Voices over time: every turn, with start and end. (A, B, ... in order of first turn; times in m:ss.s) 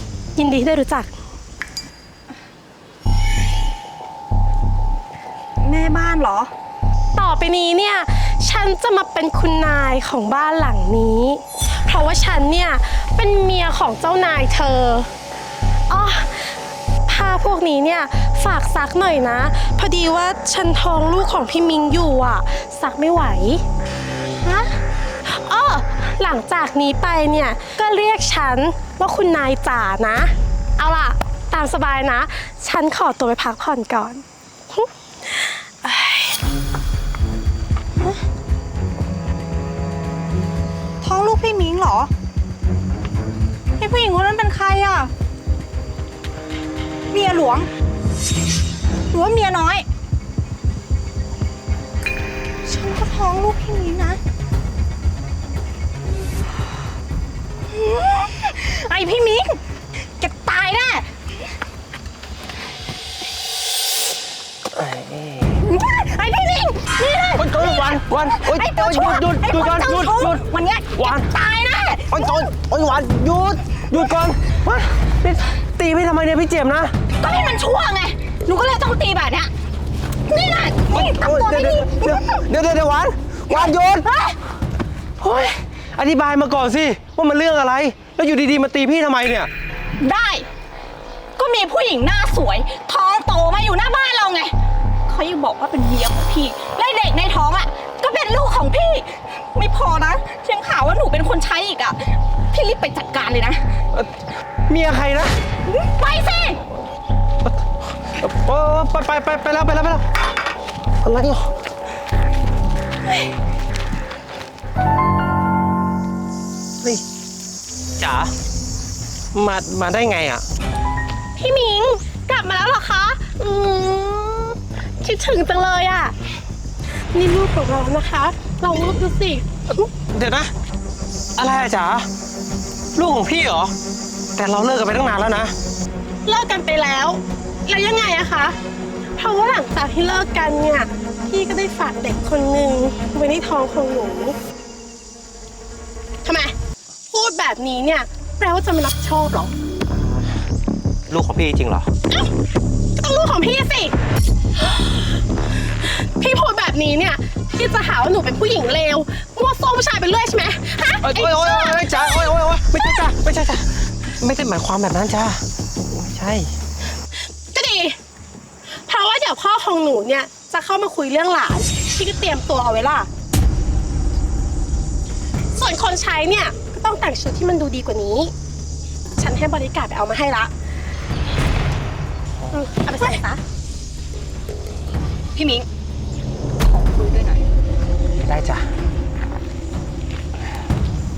0:00.4-0:01.1 A
0:05.6-0:06.5 B
0:07.2-0:15.1 A
0:15.9-0:23.6 A
0:24.5-0:24.7 A
0:25.3-0:36.4 A
0:41.0-0:42.1 B
0:43.8-0:45.1 B
0:47.1-0:47.7 B
0:49.1-0:49.9 B
0:52.7-0:54.2 B
0:57.7-0:59.6 B
1:00.2-1:01.1 B
1:04.8-1:05.6 C
1:05.6-1:12.5 B
1:07.4-1:10.4 C
1:11.0-1:11.3 C
1:12.1-1:16.9 C
1:17.2-1:19.5 B
1:20.3-1:22.4 B
1:20.9-1:24.0 C
1:23.5-1:24.4 B
1:25.2-1:29.5 C
1:30.0-1:30.5 B
1:31.4-1:34.6 B
1:35.1-1:43.8 B
1:44.7-1:45.3 C
1:45.7-1:46.6 B
1:48.2-1:50.0 C
1:51.0-1:51.5 C
1:58.0-1:58.3 C
1:59.3-2:00.4 C
2:01.4-2:06.2 A
2:07.1-2:09.9 A
2:10.1-2:10.5 C
2:11.4-2:12.1 C
2:13.0-2:13.7 C
2:14.4-2:15.5 C
2:16.2-2:18.6 A
2:19.2-2:24.4 A
2:26.2-2:26.5 A
2:27.1-2:29.6 A
2:29.9-2:30.4 C
2:31.1-2:31.9 C
2:33.0-2:34.0 A
2:34.6-2:35.2 A
2:35.8-2:43.0 A
2:41.0-2:46.5 C
2:47.5-2:48.0 A
2:48.8-2:53.1 A
2:55.6-2:58.3 A
2:59.2-3:00.5 A
3:02.5-3:03.4 A
3:05.4-3:05.7 B
3:06.6-3:07.5 B
3:08.2-3:08.7 C